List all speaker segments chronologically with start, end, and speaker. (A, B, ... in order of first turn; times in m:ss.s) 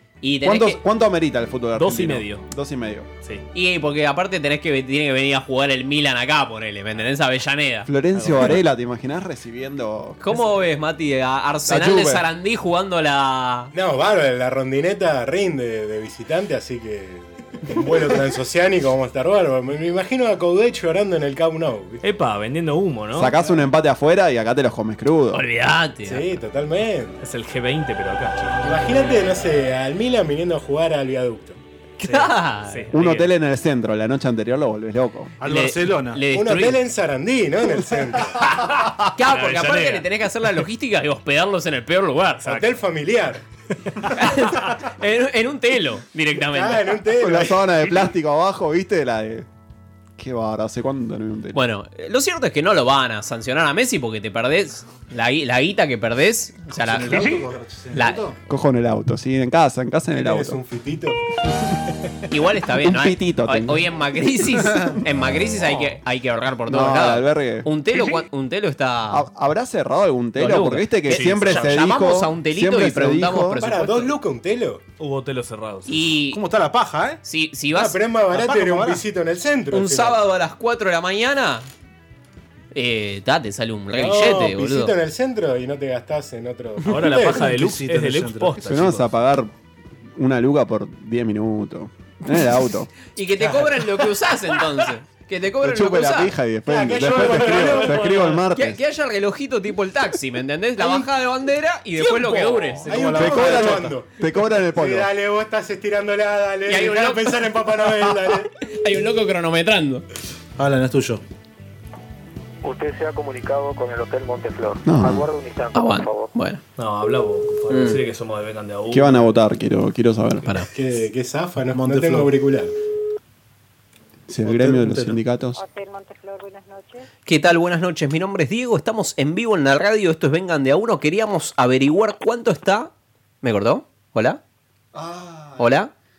0:00.2-0:00.8 A
0:00.4-0:03.1 B
0:01.8-0:02.4 C
0:03.5-0:07.9 A
0:07.8-0:10.3 B
0:08.2-0:08.4 C
0:10.2-0:13.7 A
0:11.7-0:12.2 B
0:13.7-0:22.0 D
0:22.0-0:23.4 C
0:23.1-0:25.4 B
0:25.3-0:26.3 A
0:26.0-0:27.2 D
0:27.2-0:28.6 C
0:28.6-0:31.6 D
0:32.0-0:32.9 A
0:32.0-0:33.3 C
0:32.9-0:35.3 B
0:35.4-0:36.2 E
0:35.4-0:36.8 A
0:36.3-0:38.4 D
0:38.5-0:40.0 C
0:39.1-0:42.5 A
0:42.4-0:43.4 D
0:44.1-0:47.0 A
0:46.5-0:47.6 D
0:47.2-0:49.5 B
0:50.2-0:51.6 B
0:51.5-0:57.4 A
0:56.7-0:58.4 E
0:57.9-0:58.2 A
0:58.5-1:00.6 B
1:00.1-1:01.2 D
1:02.3-1:09.2 A
1:02.8-1:03.8 B
1:06.7-1:07.7 B
1:09.1-1:13.6 B
1:10.4-1:14.1 A
1:11.1-1:11.6 C
1:13.6-1:14.8 D
1:15.0-1:16.1 C
1:15.9-1:16.4 A
1:16.3-1:17.2 E
1:17.2-1:18.0 A
1:17.7-1:20.2 D
1:18.3-1:19.0 E
1:19.7-1:21.6 A
1:22.7-1:24.9 A
1:23.9-1:27.5 D
1:26.8-1:29.1 C
1:27.5-1:28.8 E
1:28.7-1:29.5 B
1:30.2-1:32.9 B
1:33.1-1:36.3 A
1:33.4-1:33.9 D
1:35.6-1:38.8 B
1:36.6-1:38.0 D
1:38.0-1:43.7 A
1:42.8-1:48.5 D
1:43.1-1:45.1 B
1:46.7-1:47.5 A
1:48.7-1:50.0 A
1:50.6-1:51.2 E
1:52.6-1:56.3 F
1:54.8-1:55.3 B
1:55.7-1:56.6 A
1:56.8-1:59.3 C
1:57.7-1:58.0 A
1:58.9-2:00.5 B
2:00.7-2:02.7 D
2:01.7-2:02.3 E
2:04.3-2:05.6 B
2:04.4-2:05.2 E
2:07.2-2:12.9 A
2:13.4-2:14.4 A
2:14.9-2:15.7 B
2:15.6-2:15.9 A